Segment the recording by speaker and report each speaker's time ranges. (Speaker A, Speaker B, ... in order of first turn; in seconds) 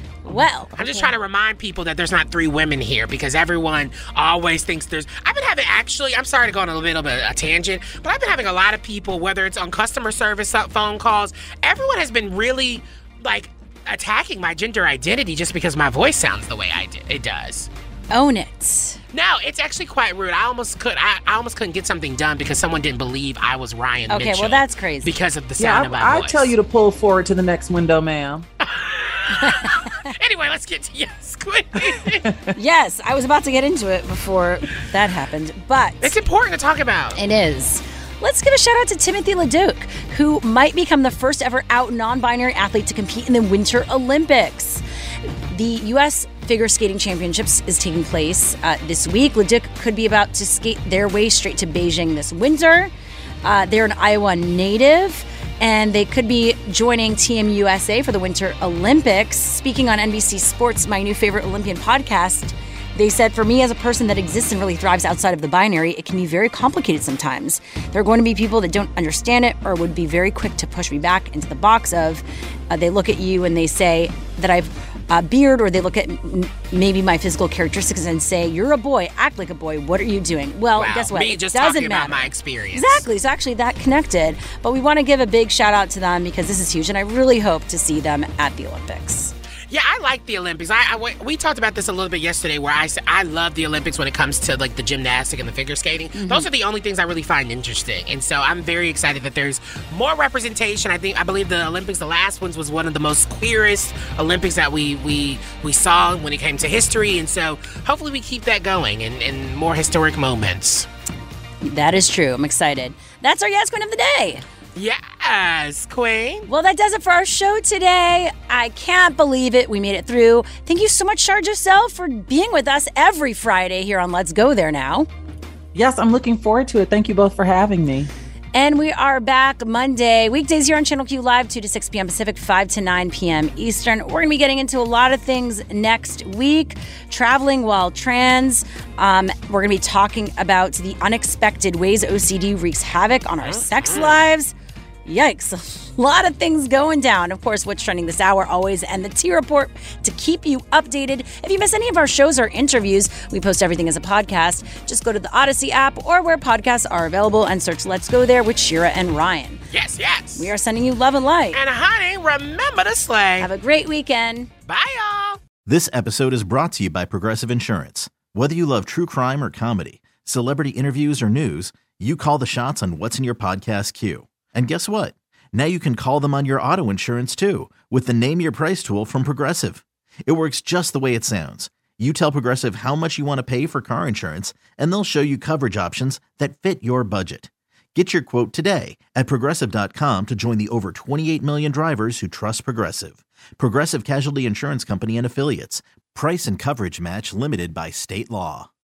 Speaker A: 0.3-0.8, 18.1-19.0, 24.1-25.1, 32.5-36.1, 37.2-44.8, 45.5-52.9, 53.4-89.3, 96.2-96.5, 111.6-114.4, 116.5-125.1, 128.5-144.5, 145.1-159.6, 160.4-161.6, 163.4-164.5
Speaker B: 0.8-17.7, 19.1-26.5, 28.7-32.3, 36.0-37.2, 80.8-83.0, 89.7-110.9, 114.8-116.5, 143.4-144.2, 159.7-160.5, 161.5-163.5, 164.7-165.4
Speaker C: 25.6-28.5, 125.7-128.1
Speaker D: 165.7-198.7